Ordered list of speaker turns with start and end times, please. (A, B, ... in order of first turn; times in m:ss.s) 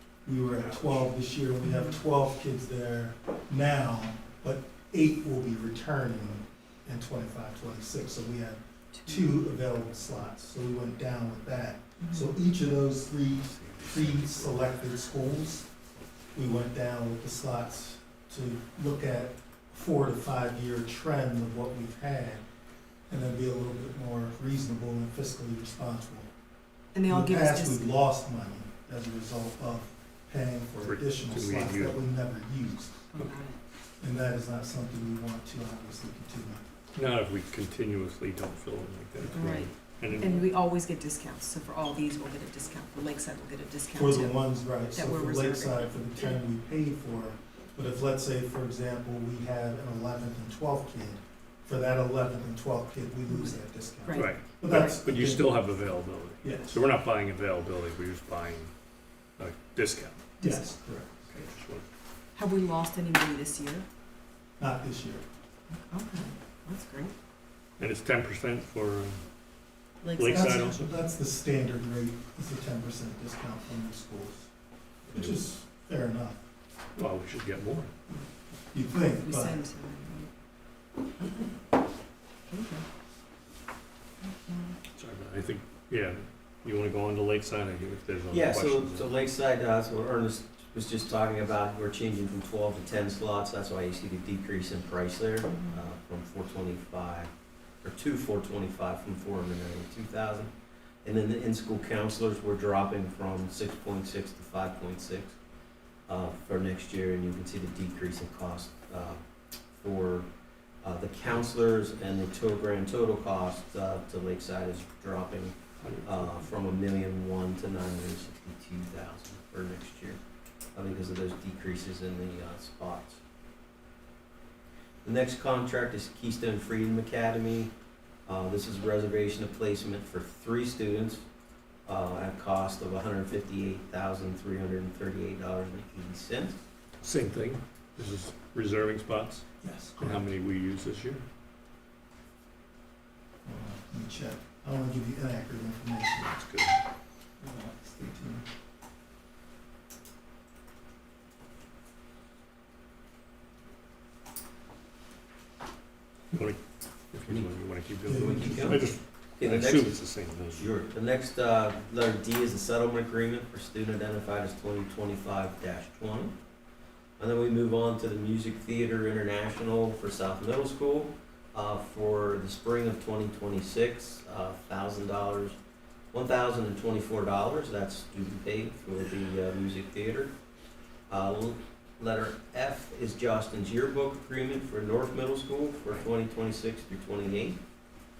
0:00.2-0:15.7 A
0:01.6-0:02.0 B
0:09.0-0:09.3 B
0:12.0-0:12.4 B
0:13.5-0:14.6 C
0:16.3-0:22.4 A
0:23.1-0:26.3 A
0:26.9-0:27.9 B
0:27.1-0:33.1 A
0:30.8-0:32.0 C
0:33.1-0:33.6 B
0:34.0-0:36.6 A
0:36.9-0:40.5 C
0:39.3-0:46.3 B
0:43.9-0:55.8 A
0:53.3-0:55.0 B
0:54.1-0:58.7 C
0:56.4-0:56.8 A
0:59.4-1:00.4 C
1:00.4-1:00.7 B
1:00.4-1:01.3 A
1:01.3-1:01.8 C
1:02.3-1:03.8 B
1:04.6-1:05.2 A
1:05.8-1:07.1 B
1:07.8-1:09.2 C
1:10.0-1:10.6 B
1:10.2-1:11.0 C
1:10.3-1:14.5 A
1:15.1-1:15.4 C
1:15.1-1:16.4 A
1:17.0-1:17.9 C
1:18.7-1:19.6 A
1:19.2-1:20.3 B
1:22.5-1:22.8 B
1:24.2-1:24.8 B
1:24.9-1:29.1 C
1:28.3-1:37.3 D
1:35.5-1:35.8 B
1:37.8-1:40.5 D
1:41.0-1:45.4 D
1:46.1-1:49.2 D
1:49.7-1:50.3 D
1:50.8-2:00.2 D
1:55.8-1:56.4 C
2:00.7-2:03.2 D
2:05.0-2:07.7 D
2:08.2-2:11.2 D
2:11.8-2:16.6 D
2:17.0-2:21.2 C
2:19.6-2:20.2 A
2:23.4-2:26.3 A
2:26.2-2:26.8 C
2:27.4-2:28.4 A
2:36.3-2:40.7 C
2:38.0-2:38.9 A
2:38.1-2:46.4 D
2:47.2-2:55.6 D
2:56.1-3:00.3 D
3:01.1-3:07.6 D